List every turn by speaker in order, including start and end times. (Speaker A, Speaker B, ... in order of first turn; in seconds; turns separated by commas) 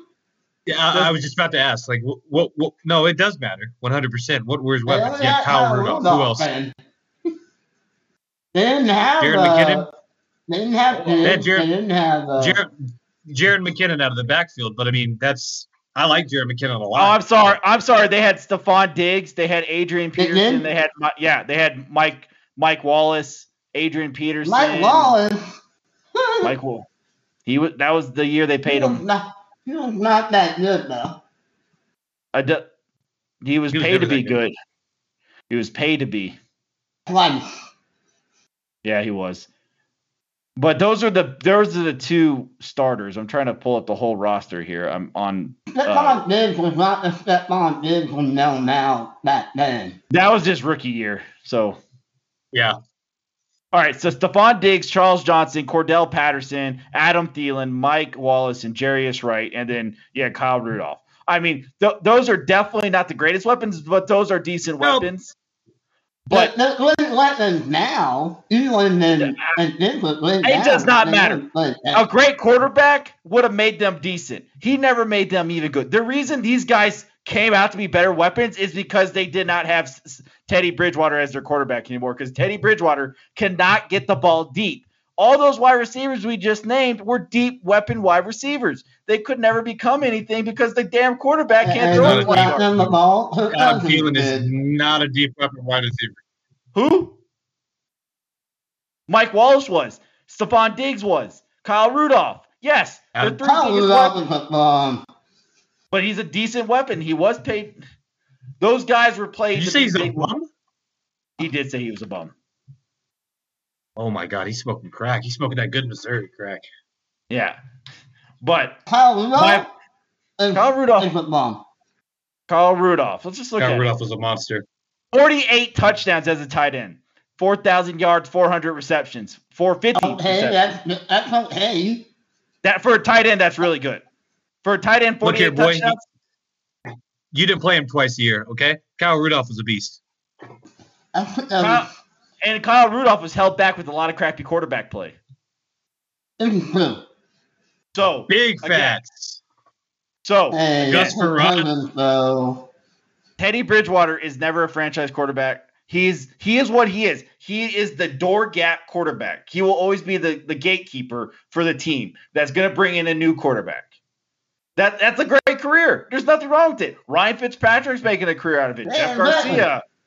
Speaker A: 0.7-6.5, Speaker B: 4.9-6.7, Speaker B: 8.5-9.9, Speaker A: 9.2-9.8, Speaker B: 10.5-12.6, Speaker C: 10.9-11.4, Speaker A: 11.2-11.7, Speaker A: 12.4-12.7, Speaker A: 13.2-17.2, Speaker C: 16.9-25.1, Speaker B: 20.2-20.7, Speaker B: 24.4-25.5, Speaker B: 26.1-26.5, Speaker C: 26.4-26.9, Speaker C: 27.4-29.0, Speaker B: 28.6-31.2, Speaker C: 32.3-32.6, Speaker C: 33.4-34.5, Speaker A: 33.7-34.4, Speaker C: 35.5-36.4, Speaker B: 37.1-37.5, Speaker C: 38.8-39.5, Speaker C: 40.6-46.2, Speaker B: 45.7-50.0, Speaker C: 50.1-51.8, Speaker C: 53.7-65.3, Speaker A: 64.8-65.1, Speaker C: 66.3-66.5, Speaker B: 66.3-72.0, Speaker C: 69.2-69.5, Speaker C: 70.4-71.4, Speaker C: 71.9-92.6, Speaker B: 91.6-94.5, Speaker A: 92.0-93.0, Speaker A: 93.5-96.2, Speaker C: 96.7-97.2, Speaker C: 99.1-104.2, Speaker B: 103.2-105.0, Speaker C: 105.9-107.8, Speaker C: 108.6-110.3, Speaker A: 109.5-110.5, Speaker C: 111.4-112.3, Speaker A: 114.0-116.7, Speaker C: 117.3-117.6, Speaker C: 118.4-118.8, Speaker B: 118.9-119.7, Speaker C: 119.3-119.7, Speaker B: 120.4-121.6, Speaker C: 120.5-121.1, Speaker C: 122.5-123.9, Speaker A: 123.6-124.7, Speaker C: 125.1-130.6, Speaker B: 129.9-132.1, Speaker C: 132.6-134.0, Speaker C: 134.6-136.0, Speaker A: 135.2-135.9, Speaker A: 137.3-140.0, Speaker B: 141.1-141.9, Speaker C: 141.6-141.9, Speaker C: 142.4-145.2, Speaker B: 146.4-147.0, Speaker C: 147.9-149.0, Speaker A: 148.3-149.4, Speaker C: 150.2-151.1, Speaker B: 150.5-152.7, Speaker A: 150.8-151.7, Speaker C: 153.4-163.9, Speaker C: 164.8-169.8, Speaker B: 168.8-169.7